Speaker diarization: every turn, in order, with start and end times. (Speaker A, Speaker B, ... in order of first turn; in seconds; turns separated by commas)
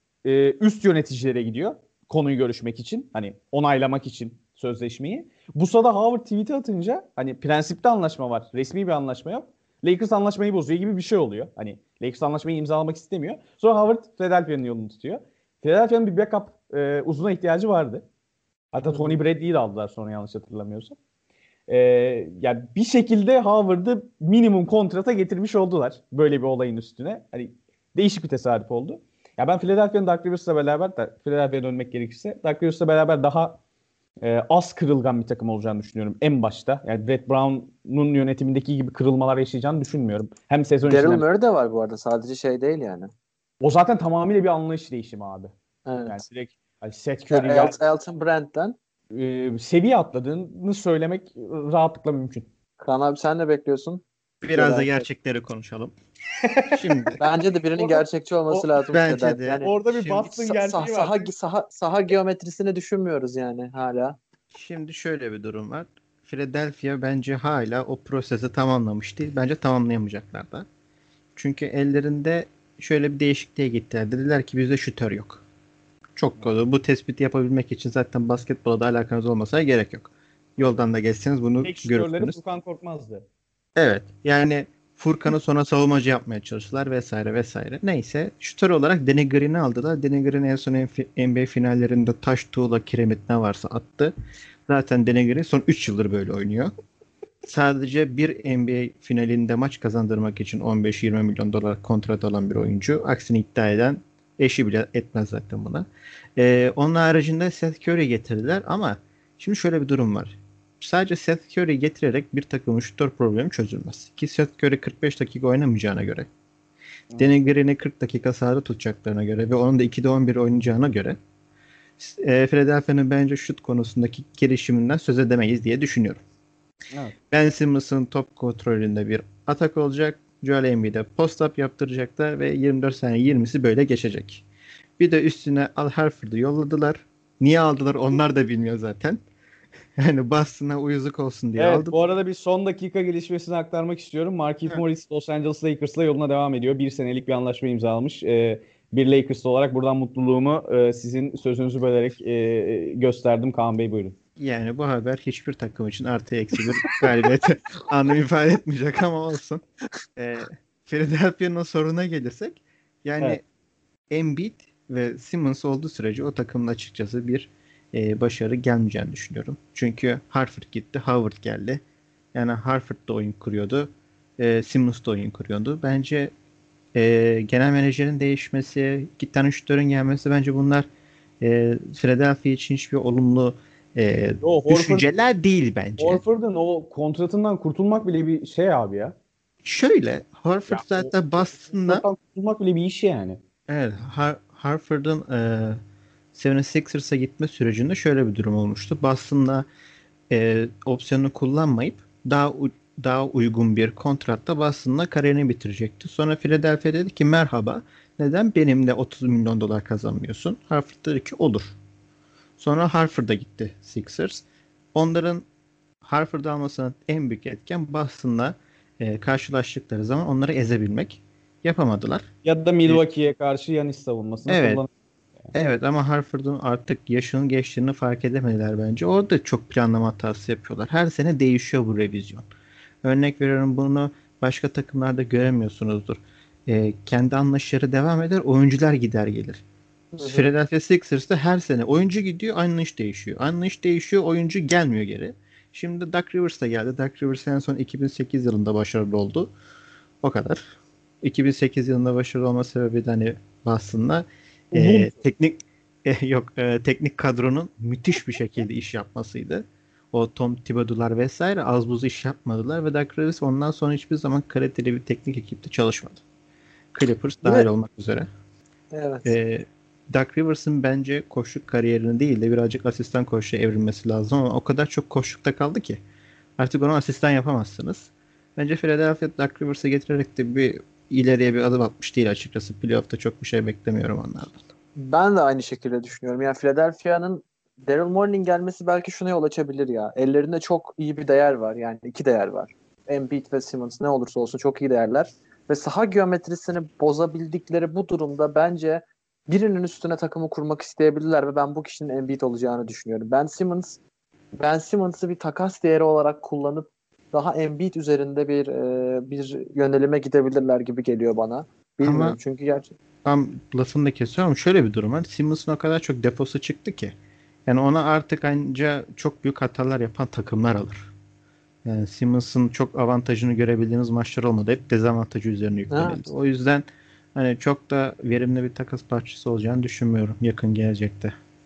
Speaker A: 0.2-18.0, Speaker A: 18.7-20.9, Speaker A: 21.7-33.6, Speaker A: 34.2-41.2, Speaker B: 40.9-43.1, Speaker A: 43.6-45.5, Speaker B: 45.9-46.2, Speaker A: 46.1-47.8, Speaker B: 47.3-48.8, Speaker A: 49.1-52.5, Speaker B: 52.8-55.0, Speaker C: 54.4-55.9, Speaker A: 56.4-57.1, Speaker C: 56.7-57.2, Speaker B: 57.2-64.2, Speaker A: 57.8-58.7, Speaker C: 58.9-60.2, Speaker A: 59.6-61.3, Speaker C: 64.5-70.7, Speaker C: 71.3-75.4, Speaker C: 76.2-82.4, Speaker A: 81.6-83.2, Speaker C: 83.8-94.1, Speaker C: 94.7-96.7, Speaker C: 97.4-116.3, Speaker C: 117.2-121.2, Speaker C: 122.0-126.2, Speaker C: 127.3-134.4, Speaker C: 135.0-139.2, Speaker C: 140.0-142.0, Speaker A: 141.6-154.2, Speaker C: 154.4-159.6, Speaker C: 160.2-163.4, Speaker C: 164.1-171.8, Speaker C: 172.3-176.3, Speaker C: 176.9-180.9, Speaker C: 181.4-186.2, Speaker A: 184.4-185.1, Speaker A: 186.0-189.1, Speaker C: 189.6-192.0, Speaker A: 190.7-193.4, Speaker C: 193.7-195.8, Speaker C: 196.3-199.7, Speaker C: 200.3-211.7, Speaker C: 212.6-215.4, Speaker C: 216.0-222.3, Speaker A: 222.4-224.9, Speaker C: 224.5-224.8, Speaker C: 225.5-232.5, Speaker C: 233.0-239.6, Speaker B: 240.1-240.5, Speaker C: 240.2-249.5, Speaker C: 250.2-250.6, Speaker C: 251.2-266.2, Speaker A: 254.7-255.1, Speaker C: 266.9-268.3, Speaker B: 268.9-269.3, Speaker C: 269.2-276.0, Speaker C: 276.6-284.6, Speaker B: 284.9-304.0, Speaker B: 304.6-312.9, Speaker C: 312.0-312.4, Speaker C: 313.2-317.1, Speaker C: 317.6-321.1, Speaker C: 321.8-331.3, Speaker B: 325.9-326.2